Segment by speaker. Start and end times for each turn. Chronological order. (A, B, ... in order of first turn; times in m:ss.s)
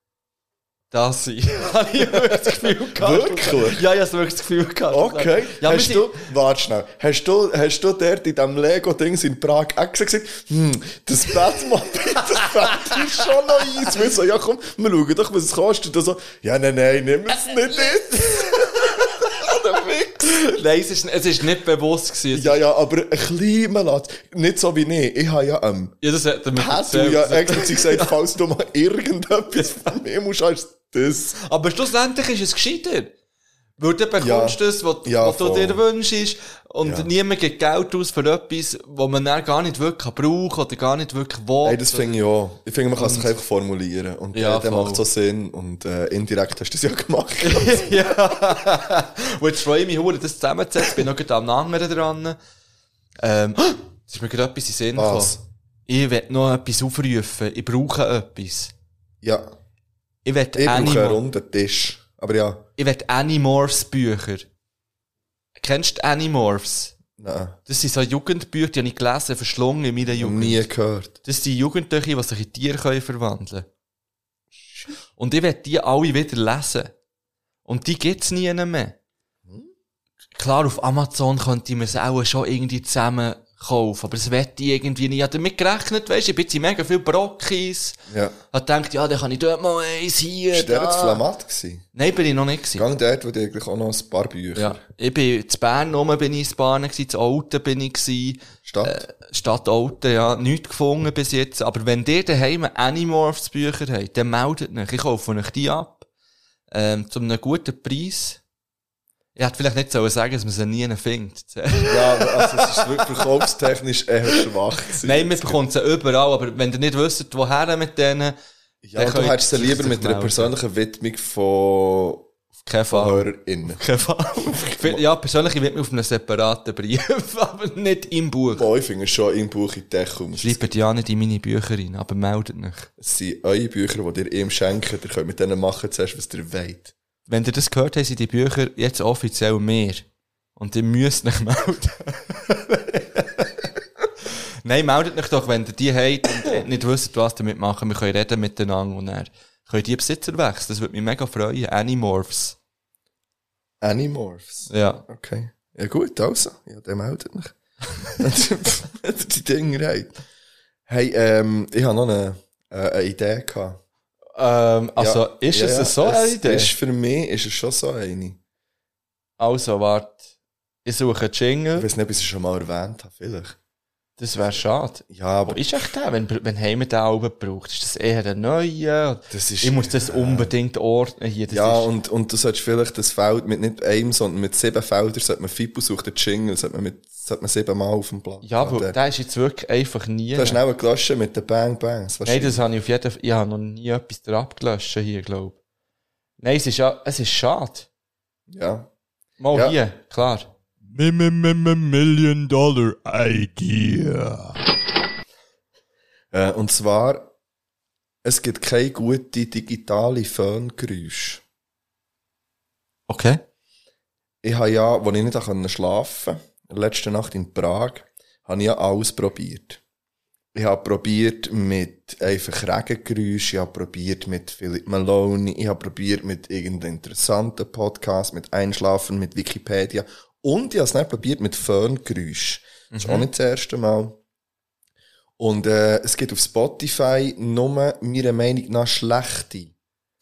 0:00.9-0:06.2 A
0:02.1-0:03.8 B
0:04.9-0:20.4 B
0:12.3-0:13.3 A
0:17.8-0:19.1 A
0:20.2-0:22.6 A
0:22.3-0:25.9 B
0:26.0-0:28.2 A
0:26.5-0:31.4 B
0:29.5-0:29.9 A
0:31.4-0:33.1 A
0:33.8-0:42.1 A
0:34.2-0:35.8 B
0:36.8-0:37.1 B
0:41.6-0:47.9 B
0:43.0-0:43.3 A
0:44.3-0:45.0 A
0:47.4-0:52.4 A
0:53.2-0:58.7 A
0:54.9-0:55.4 B
0:59.2-0:59.5 B
1:00.2-1:01.2 A
1:00.6-1:02.6 B
1:02.8-1:04.5 A
1:05.6-1:06.9 A
1:07.2-1:07.6 B
1:07.7-1:10.7 A
1:10.2-1:11.2 B
1:11.2-1:13.7 A
1:14.6-1:14.9 B
1:15.2-1:16.9 A
1:17.6-1:18.9 A
1:20.4-1:28.0 A
1:28.1-1:28.4 B
1:28.5-1:31.2 A
1:30.5-1:31.8 B
1:31.9-1:32.8 A
1:32.7-1:34.8 B
1:34.5-1:46.1 A
1:38.6-1:39.0 B
1:46.7-1:48.4 A
1:49.4-1:53.2 A
1:51.8-1:55.6 B
1:55.0-1:58.3 A
1:58.8-2:02.3 B
1:59.0-2:00.5 A
2:02.6-2:08.7 A
2:02.9-2:03.8 B
2:04.4-2:05.0 B
2:08.5-2:10.6 B
2:10.4-2:12.9 A
2:13.0-2:16.9 B
2:17.3-2:20.0 A
2:20.6-2:23.5 A
2:24.6-2:32.6 A
2:33.8-2:37.6 B
2:34.7-2:35.0 A
2:38.2-2:40.1 B
2:40.9-2:43.8 B
2:44.3-2:46.7 A
2:45.0-2:48.4 B
2:49.4-2:50.2 A
2:50.8-2:51.9 A
2:51.8-2:53.6 B
2:54.2-3:01.9 A
2:55.1-2:55.6 B
2:59.3-3:00.5 B
3:01.5-3:09.0 B
3:08.4-3:10.6 A
3:10.3-3:12.6 B
3:12.2-3:15.6 A
3:16.4-3:17.9 A
3:18.5-3:18.9 B
3:19.4-3:24.6 A
3:19.5-3:19.8 B
3:26.3-3:27.3 B
3:28.2-3:31.4 B
3:33.1-3:33.4 A
3:34.4-3:39.8 B
3:40.5-3:54.2 B
3:52.9-3:53.3 A
3:55.4-3:59.7 B